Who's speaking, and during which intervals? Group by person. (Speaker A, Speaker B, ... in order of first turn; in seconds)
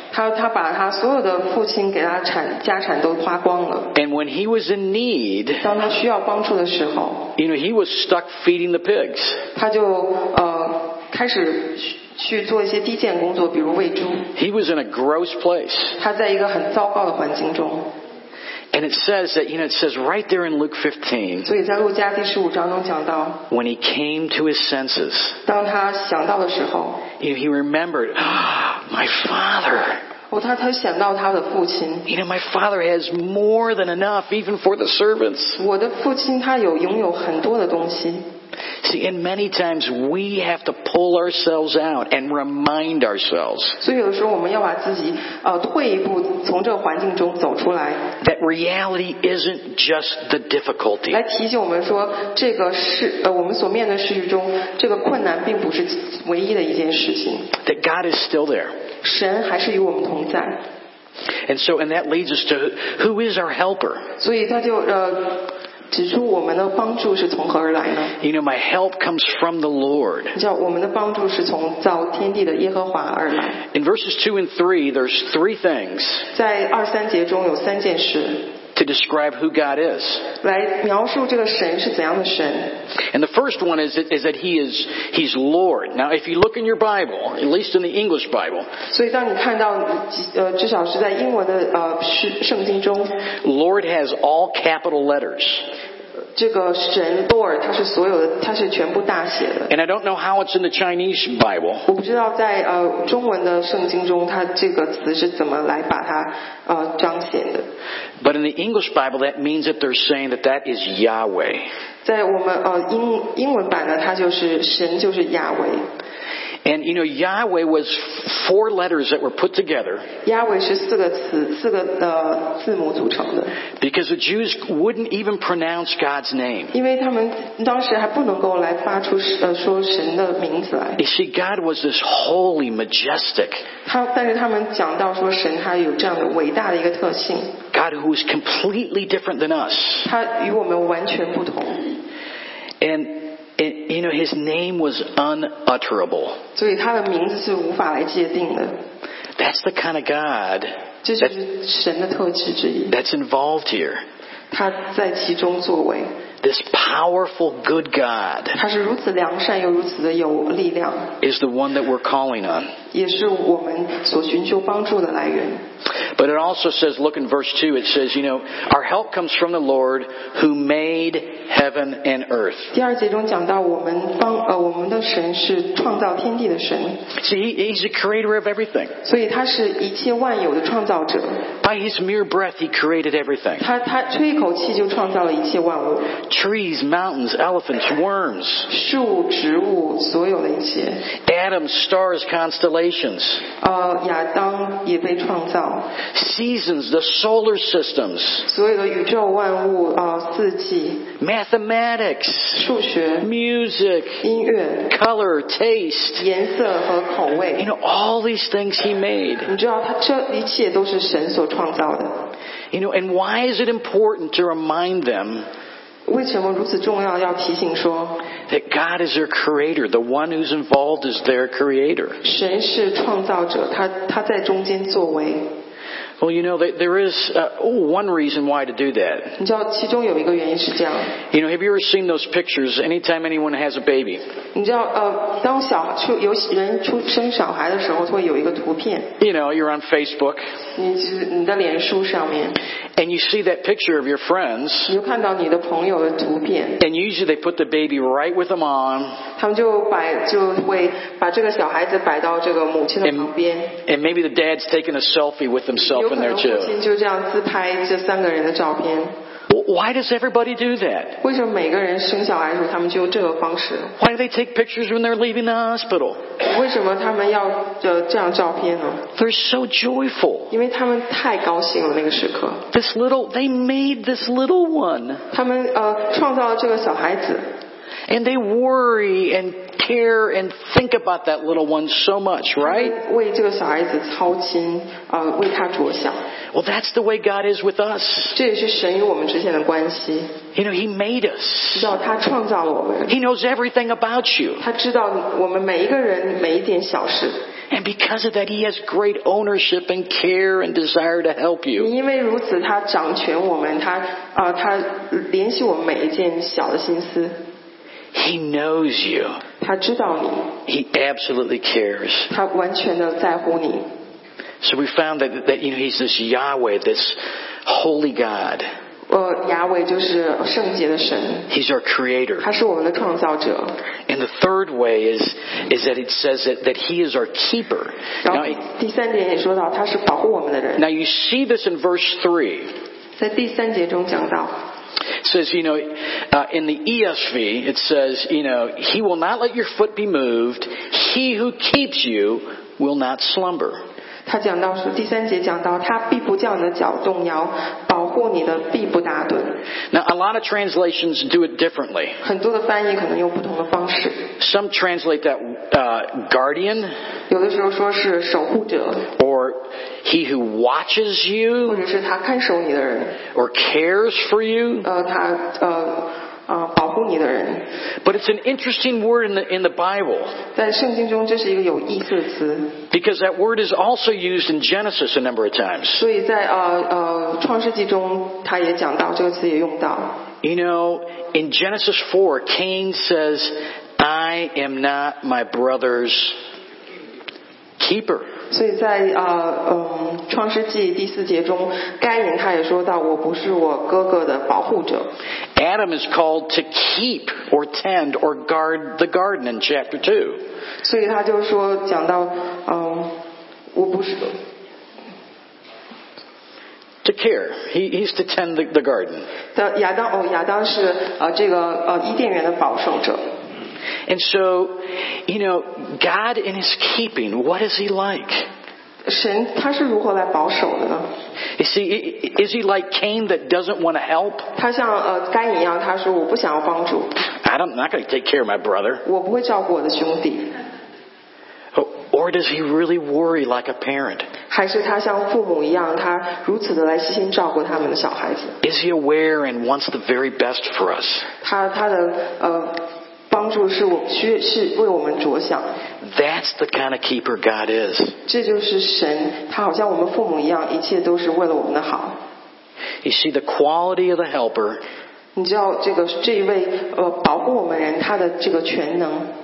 Speaker A: 0.1-3.9, 5.6-7.3, 9.5-14.3, 16.0-17.9, 21.4-23.4, 25.4-27.0, 30.3-32.1, 35.6-38.2, 43.8-48.0, 51.1-57.5, 59.0-60.6, 64.2-68.1, 70.3-73.6, 76.3-78.5, 80.4-82.8, 88.9-93.2, 96.3-99.7, 101.9-107.7, 112.0-115.8, 120.2-123.6, 126.7-131.0, 133.8-137.5, 140.0-141.8, 146.5-148.7, 151.0-152.9, 154.5-156.1, 158.5-161.1, 162.9-165.6, 172.7-177.0, 179.0-181.4, 183.6-186.2, 188.7-191.0, 193.6-195.9, 198.4-201.1, 202.5-203.3, 204.2-204.9, 206.2-207.7, 209.5-212.1, 216.1-218.2, 222.2-225.5, 229.4-231.1, 234.5-239.1, 240.8-242.6, 244.9-246.8, 249.4-253.7, 255.8-259.1, 261.2-263.9, 266.4-269.0, 270.5-272.6, 275.3-277.4, 282.6-286.2, 288.3-290.3, 291.7-293.1, 294.6-297.4, 301.7-307.4, 309.6-310.5, 312.3-313.9, 319.1-321.5, 322.4-323.7, 328.2-330.8, 333.2-334.5, 344.2-349.6, 352.2-354.2, 357.3-359.1, 361.6-363.2, 364.8-367.6, 370.5-372.8, 375.9-380.2, 388.5-395.1, 400.8-403.1, 403.7-404.4, 409.5-413.2, 419.0-421.1, 424.5-427.2, 429.0-430.5, 434.5-438.6, 441.4-445.7, 448.2-452.2, 455.3-459.3
Speaker B: 3.9-5.7, 7.4-9.4, 14.3-16.0, 18.7-21.5, 23.5-25.4, 27.2-30.0, 32.0-35.6, 38.8-43.8, 48.2-51.2, 57.6-58.7, 61.5-64.1, 68.2-70.3, 73.7-76.3, 78.7-80.3, 83.1-88.7, 93.4-95.7, 99.7-101.9, 108.2-111.7, 116.6-120.1, 123.8-126.7, 131.0-133.6, 137.7-140.1, 142.8-146.4, 149.4-151.3, 152.9-154.0, 156.4-158.6, 161.2-162.7, 166.2-172.7, 177.1-178.9, 181.6-183.6, 186.2-188.7, 191.2-193.4, 196.1-198.4, 201.2-202.6, 203.2-204.2, 204.9-206.2, 207.6-209.5, 212.7-215.5, 218.5-222.2, 226.2-229.3, 231.3-234.2, 239.2-240.4, 243.0-244.9, 246.8-249.2, 253.0-253.3, 253.8-256.7, 259.5-261.2, 264.0-266.2, 269.1-270.5, 272.7-275.2, 278.1-283.0, 286.5-288.4, 290.5-291.9, 293.1-294.6, 297.7-301.9, 308.1-309.4, 310.7-312.3, 314.6-318.7, 321.5-322.5, 324.1-328.6, 330.8-332.7, 335.2-343.8, 349.9-352.2, 354.4-356.9, 359.2-361.9, 363.3-364.9, 368.0-370.4, 372.9-376.0, 380.4-386.4, 387.8-388.3, 395.6-400.4, 407.0-409.3, 414.1-418.5, 421.6-424.5, 427.3-429.0, 431.7-434.3, 438.6-441.3, 446.0-448.1, 453.0-454.8